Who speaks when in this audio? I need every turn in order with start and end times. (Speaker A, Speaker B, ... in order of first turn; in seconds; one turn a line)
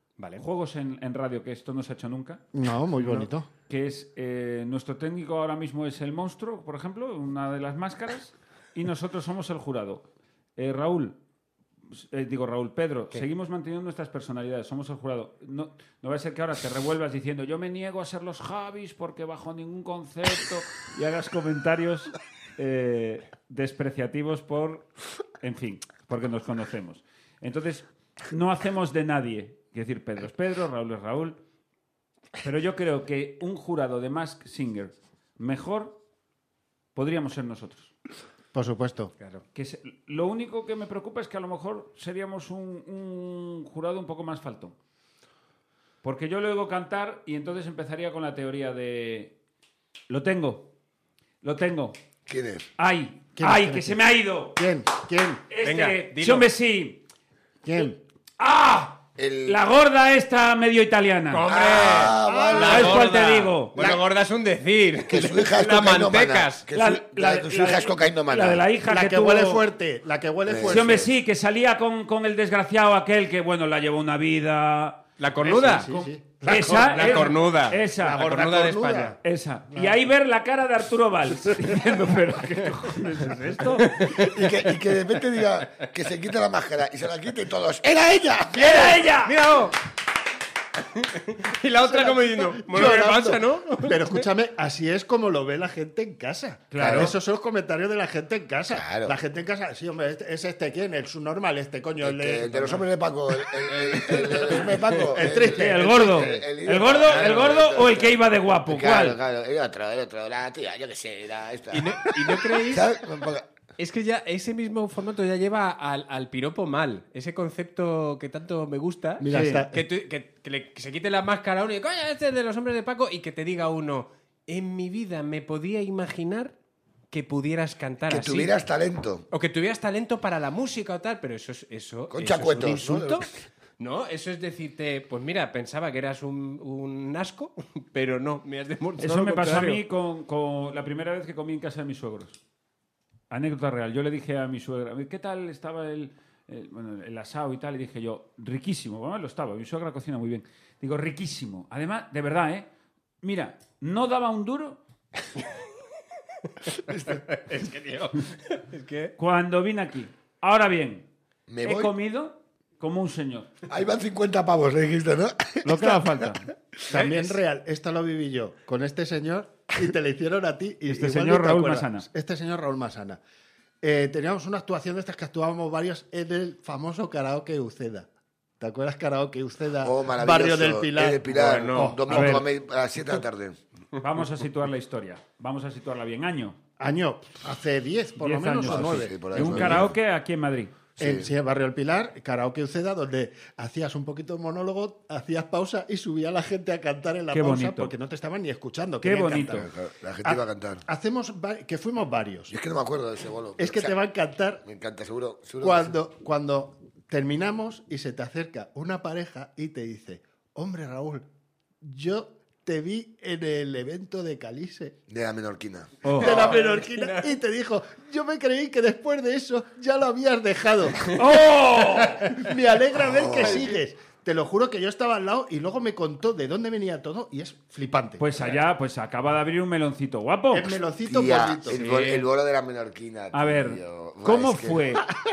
Speaker A: 0.2-0.4
Speaker B: 0.4-2.4
Speaker C: 2.5-3.5
Speaker A: 3.0-3.3
Speaker B: 3.7-11.2
Speaker B: 11.9-24.9
Speaker B: 25.4-31.4
Speaker B: 32.4-36.0
Speaker B: 36.9-37.9
Speaker C: 38.5-39.1
Speaker B: 39.5-44.8
Speaker B: 46.0-49.4
Speaker B: 50.1-50.7
Speaker B: 51.4-51.9
Speaker D: 52.3-52.7
Speaker B: 52.8-54.6
Speaker C: 53.4-54.0
Speaker C: 54.5-55.4
Speaker B: 55.5-57.0
Speaker A: 55.6-56.5
Speaker C: 57.6-58.0
Speaker B: 58.4-61.5
Speaker D: 59.1-59.6
Speaker A: 61.3-66.6
Speaker D: 61.5-63.1
Speaker C: 62.2-63.1
Speaker B: 62.7-63.8
Speaker D: 65.0-68.7
Speaker B: 66.7-69.7
Speaker C: 68.9-71.1
Speaker D: 70.5-71.1
Speaker B: 70.7-75.0
Speaker A: 75.2-76.0
Speaker C: 75.4-77.4
Speaker B: 76.4-78.3
Speaker A: 76.6-79.2
Speaker C: 78.0-79.2
Speaker B: 79.2-84.0
Speaker A: 83.8-84.6
Speaker D: 84.0-89.1
Speaker B: 88.5-89.3
Speaker A: 89.1-89.8
Speaker A: 90.9-94.3
Speaker C: 91.8-102.8
Speaker B: 96.7-97.1
Speaker D: 96.8-97.1
Speaker D: 98.7-99.2
Speaker D: 102.0-113.5
Speaker A: 103.8-105.2
Speaker C: 104.1-104.5
Speaker C: 105.1-106.5
Speaker B: 105.5-109.2
Speaker A: 111.7-112.9
Speaker A: 113.8-126.5
Speaker C: 119.2-119.8
Speaker B: 119.2-119.7
Speaker A: 127.1-128.5
Speaker D: 128.1-129.2
Speaker A: 129.3-139.8
Speaker D: 132.1-133.4
Speaker B: 139.0-142.4
Speaker B: 143.3-152.7
Speaker B: 153.2-154.8
Speaker A: 156.6-159.1
Speaker D: 156.9-157.2
Speaker B: 159.2-161.1
Speaker D: 161.5-161.9
Speaker B: 161.6-163.5
Speaker D: 163.7-165.9
Speaker B: 165.6-166.5
Speaker C: 165.7-166.0
Speaker C: 166.9-173.2
Speaker A: 166.9-167.4
Speaker B: 170.9-172.1
Speaker C: 173.8-178.1
Speaker C: 178.6-182.4
Speaker D: 179.8-183.6
Speaker A: 181.2-182.0
Speaker B: 182.1-182.4
Speaker B: 184.0-186.6
Speaker C: 186.8-189.9
Speaker B: 188.2-190.7
Speaker D: 188.6-189.9
Speaker D: 191.0-191.3
Speaker C: 191.0-199.7
Speaker B: 197.3-197.9
Speaker B: 199.0-199.7
Speaker D: 199.3-200.8
Speaker C: 200.2-202.5
Speaker D: 202.5-203.9
Speaker C: 203.6-204.6
Speaker D: 204.6-206.0
Speaker C: 205.6-211.2
Speaker C: 211.8-215.0
Speaker D: 215.1-216.1
Speaker B: 216.0-216.6
Speaker C: 216.1-228.2
Speaker A: 216.2-217.3
Speaker B: 221.1-222.2
Speaker D: 223.0-223.7
Speaker A: 223.4-223.7
Speaker B: 228.2-230.8
Speaker C: 230.5-231.8
Speaker D: 231.0-235.0
Speaker A: 231.7-232.3
Speaker B: 233.3-235.1